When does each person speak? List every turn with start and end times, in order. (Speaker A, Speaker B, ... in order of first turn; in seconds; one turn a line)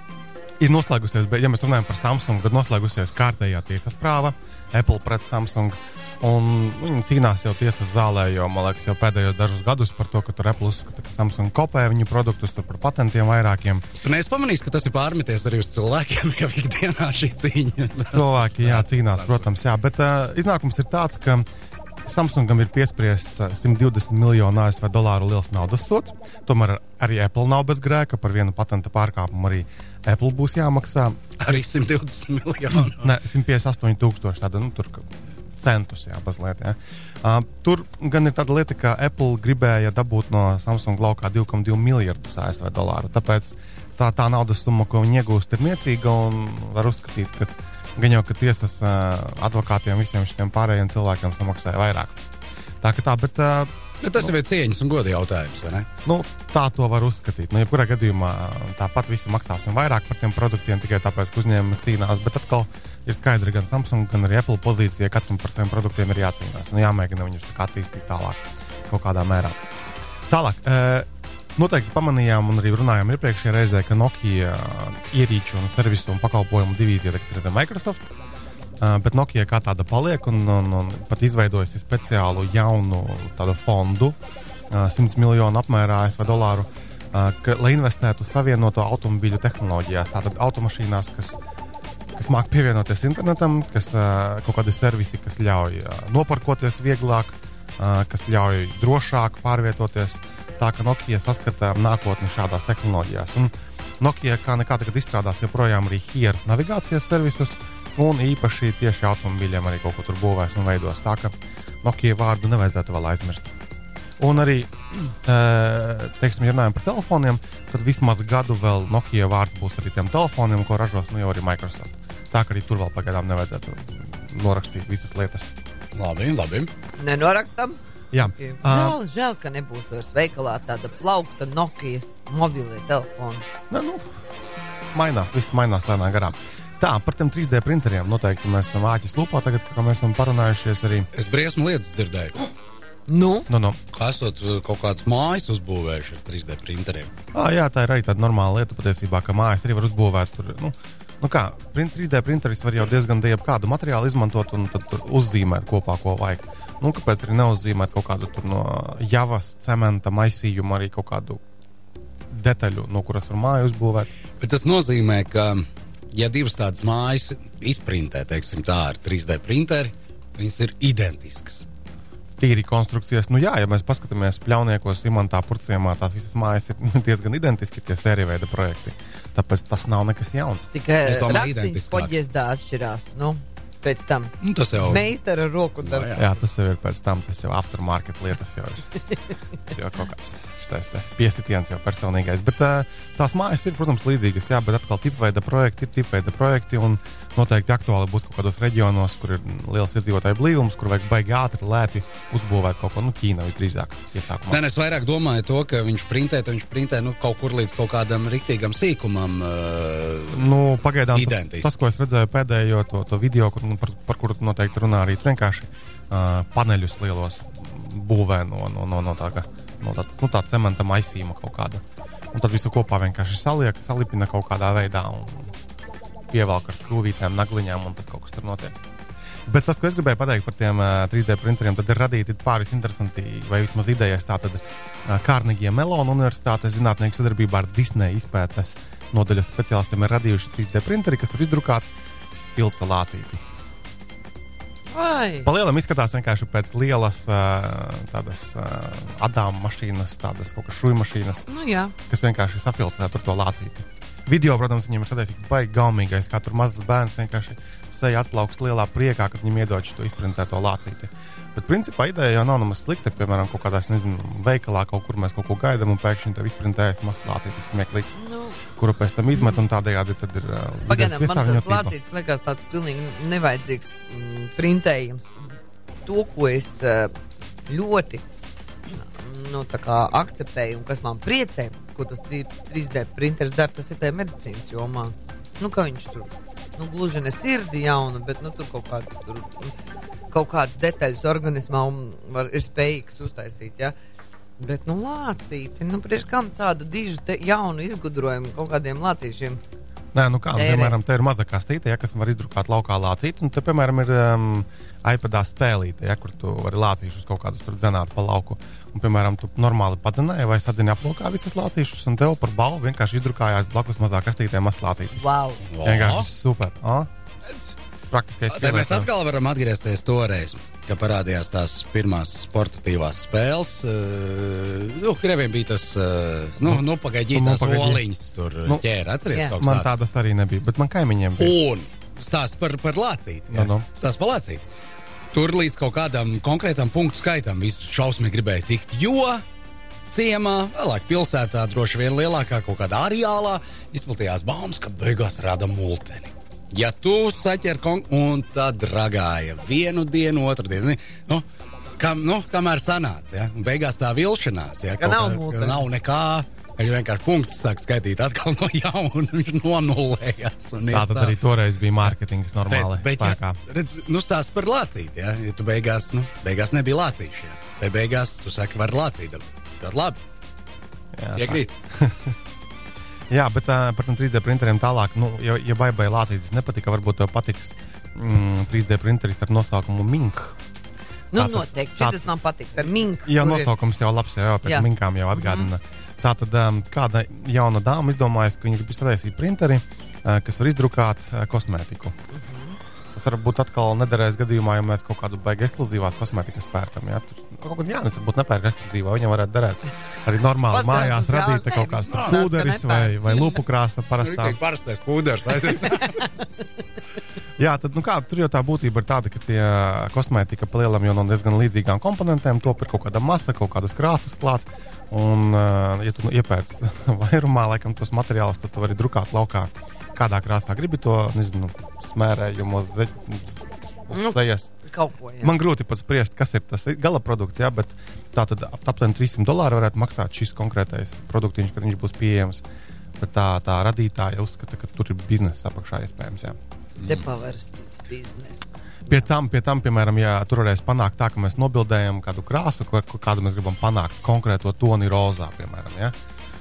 Speaker A: 0.6-13.8
Speaker B: 14.0-19.4
Speaker A: 18.1-21.4
Speaker A: 22.1-31.3
Speaker B: 31.4-33.1
Speaker A: 33.0-35.1
Speaker A: 35.6-52.1
Speaker A: 52.8-54.3
Speaker B: 54.0-55.9
Speaker A: 56.0-69.6
Speaker A: 70.3-78.0
Speaker A: 78.8-84.2
Speaker A: 84.7-91.4
Speaker A: 92.2-113.5
Speaker A: 114.2-125.5
Speaker B: 125.9-126.7
Speaker C: 127.0-133.4
Speaker A: 128.1-129.0
Speaker A: 133.7-134.1
Speaker A: 134.9-141.1
Speaker B: 141.1-142.5
Speaker C: 143.1-143.5
Speaker A: 143.5-143.8
Speaker B: 143.9-147.1
Speaker A: 147.3-161.4
Speaker A: 162.3-164.1
Speaker B: 164.4-171.6
Speaker A: 172.4-180.7
Speaker C: 180.7-186.1
Speaker B: 181.0-182.1
Speaker B: 184.4-185.1
Speaker B: 185.8-186.3
Speaker A: 186.1-189.0
Speaker A: 189.7-204.6
Speaker B: 204.5-210.5
Speaker A: 210.3-225.5
Speaker B: 211.1-211.7
Speaker A: 226.3-228.7
Speaker A: 229.5-241.9
Speaker A: 242.5-243.4
Speaker C: 244.9-245.5
Speaker A: 245.4-251.4
Speaker C: 251.5-251.9
Speaker A: 252.1-268.2
Speaker C: 268.2-268.6
Speaker A: 268.7-271.9
Speaker C: 270.9-275.5
Speaker C: 276.1-277.1
Speaker C: 277.7-278.2
Speaker C: 278.9-289.7
Speaker C: 290.3-293.9
Speaker C: 294.6-299.6
Speaker A: 300.1-315.3
Speaker C: 300.5-301.0
Speaker C: 315.2-315.6
Speaker B: 315.7-316.3
Speaker A: 315.8-317.1
Speaker B: 317.4-317.7
Speaker A: 318.1-319.1
Speaker B: 318.5-329.9
Speaker A: 326.6-328.0
Speaker A: 329.5-331.6
Speaker B: 331.4-334.6
Speaker A: 333.5-333.9
Speaker B: 335.3-339.4
Speaker B: 340.1-351.4
Speaker B: 352.0-361.4
Speaker C: 355.0-355.9
Speaker A: 360.9-363.6
Speaker B: 362.7-370.2
Speaker A: 371.1-372.3
Speaker B: 371.4-371.7
Speaker A: 373.3-380.5
Speaker C: 381.3-383.7
Speaker A: 381.3-382.2
Speaker A: 383.0-392.1
Speaker C: 384.6-385.7
Speaker C: 392.3-392.8
Speaker A: 393.1-404.6
Speaker C: 400.7-403.4
Speaker B: 402.1-402.3
Speaker B: 404.2-406.2
Speaker A: 407.6-424.7
Speaker C: 424.1-425.5
Speaker A: 425.4-432.6
Speaker A: 433.2-436.6
Speaker C: 437.0-439.3
Speaker A: 439.1-446.1